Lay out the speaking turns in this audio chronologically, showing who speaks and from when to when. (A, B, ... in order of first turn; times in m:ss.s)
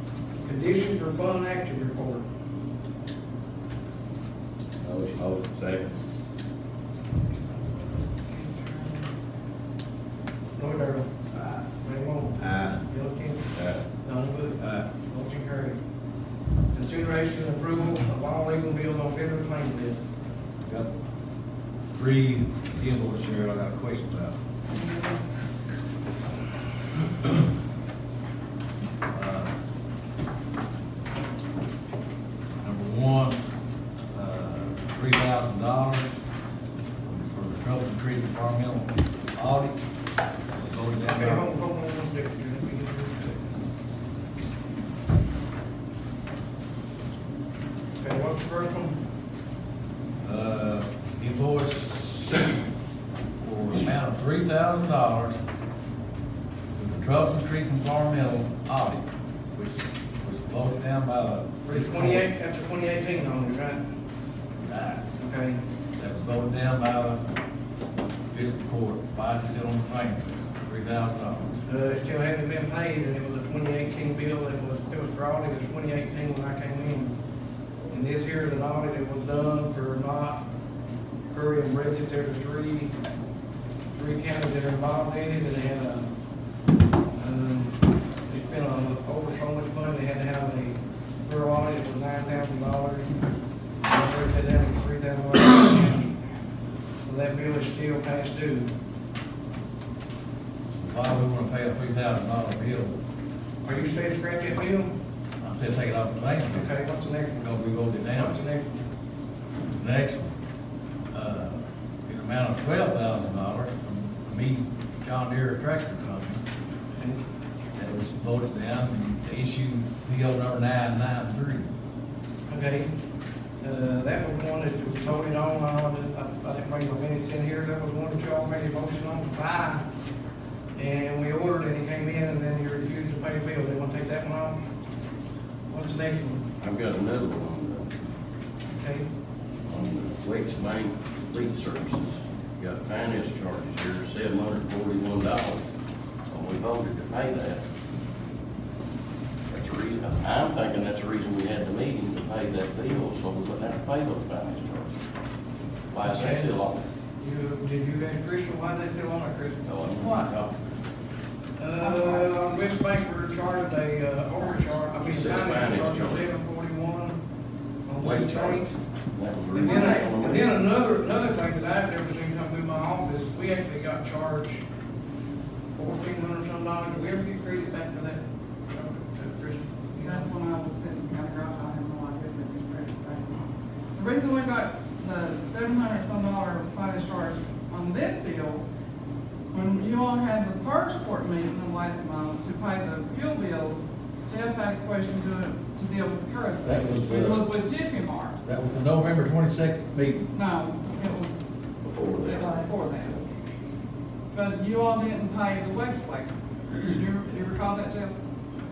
0:00.4-0:02.2 A
0:04.8-0:05.9 B
0:08.1-0:09.1 A
0:10.6-0:11.1 A
0:11.8-0:15.8 A
0:13.5-0:13.8 B
0:16.7-0:20.0 A
0:21.9-0:24.4 C
0:29.1-0:29.5 C
0:32.6-0:33.4 C
0:34.1-0:36.2 C
0:37.0-0:39.8 C
0:40.5-0:41.4 C
0:41.1-0:43.4 A
0:48.0-0:49.0 A
0:50.2-0:52.6 C
0:53.4-0:55.4 C
0:56.8-1:02.3 C
1:01.6-1:03.8 A
1:04.6-1:05.0 C
1:05.2-1:05.6 A
1:06.0-1:07.2 C
1:08.3-1:11.6 C
1:11.7-1:17.1 A
1:17.9-1:20.4 A
1:21.3-1:22.9 A
1:23.9-1:26.1 A
1:27.2-1:33.2 A
1:33.8-1:36.1 A
1:37.0-1:38.7 A
1:40.7-1:43.0 C
1:43.6-1:44.9 A
1:45.4-1:46.8 C
1:46.5-1:47.5 A
1:47.4-1:48.4 C
1:48.1-1:48.8 A
1:49.7-1:50.3 C
1:51.1-1:56.4 C
1:57.0-1:57.2 A
1:57.8-2:01.7 C
2:02.5-2:02.9 A
2:03.6-2:09.8 A
2:10.8-2:14.6 A
2:15.7-2:16.4 A
2:16.6-2:17.9 B
2:18.7-2:19.1 A
2:19.7-2:25.6 B
2:26.3-2:27.6 B
2:29.5-2:34.9 B
2:35.9-2:36.8 B
2:36.0-2:36.6 A
2:37.2-2:39.6 A
2:39.6-2:40.6 B
2:40.0-2:40.2 D
2:41.6-2:47.2 A
2:41.8-2:42.4 D
2:45.0-2:46.2 B
2:47.9-2:48.8 A
2:48.0-2:50.5 B
2:49.5-2:50.1 D
2:49.6-2:54.6 A
2:55.8-3:00.3 A
3:00.0-3:08.6 D
3:09.5-3:18.4 D
3:16.6-3:17.5 C
3:18.4-3:20.3 C
3:20.3-3:21.3 D
3:21.8-3:23.3 B
3:22.2-3:23.2 D
3:24.3-3:28.1 D